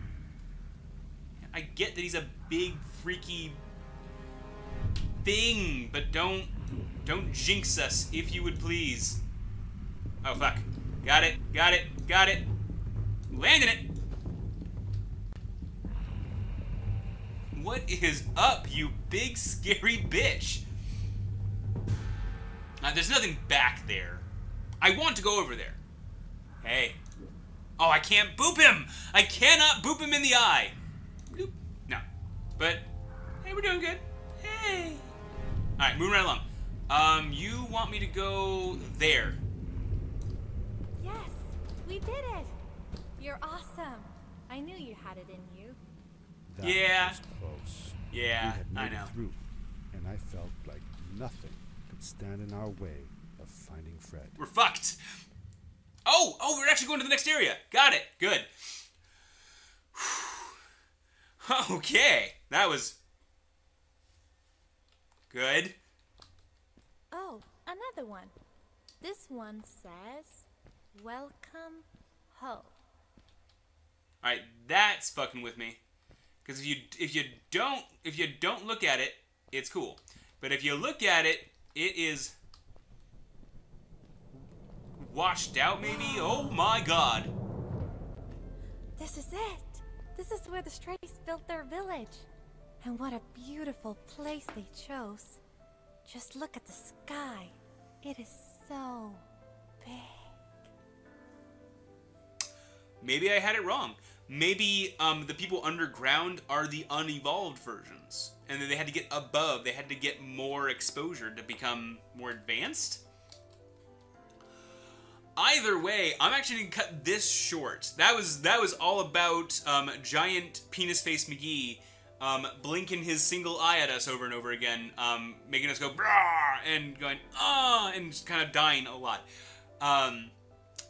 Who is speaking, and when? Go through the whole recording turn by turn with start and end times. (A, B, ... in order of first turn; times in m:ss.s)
0:01.4-0:03.6 A
0:05.2-0:06.5 A
0:07.0-0:09.2 A
0:10.2-0:12.5 A
0:13.3-0:13.9 A
0:17.5-0:20.6 A
0:22.8-0:24.3 A
0:24.8-0:25.8 A
0:26.6-0:27.0 A
0:27.8-0:30.8 A
0:31.3-0:32.0 A
0:32.6-0:32.9 A
0:33.4-0:35.1 A
0:35.8-0:39.4 A
0:41.0-0:42.6 B
0:43.2-0:45.8 B
0:46.5-0:54.4 C
0:46.6-0:47.2 A
0:48.1-0:49.1 A
0:54.4-0:55.0 A
0:56.1-0:58.5 A
1:00.0-1:00.6 A
1:01.4-1:03.0 A
1:05.3-1:05.8 A
1:07.1-1:08.3 B
1:09.0-1:12.7 B
1:14.2-1:15.8 A
1:16.4-1:22.4 A
1:25.0-1:27.3 A
1:25.8-1:26.6 B
1:29.0-1:32.3 B
1:32.8-1:35.4 B
1:36.0-1:39.2 B
1:39.8-1:40.3 B
1:43.0-1:53.0 A
1:55.4-2:09.3 A
2:09.8-2:10.3 A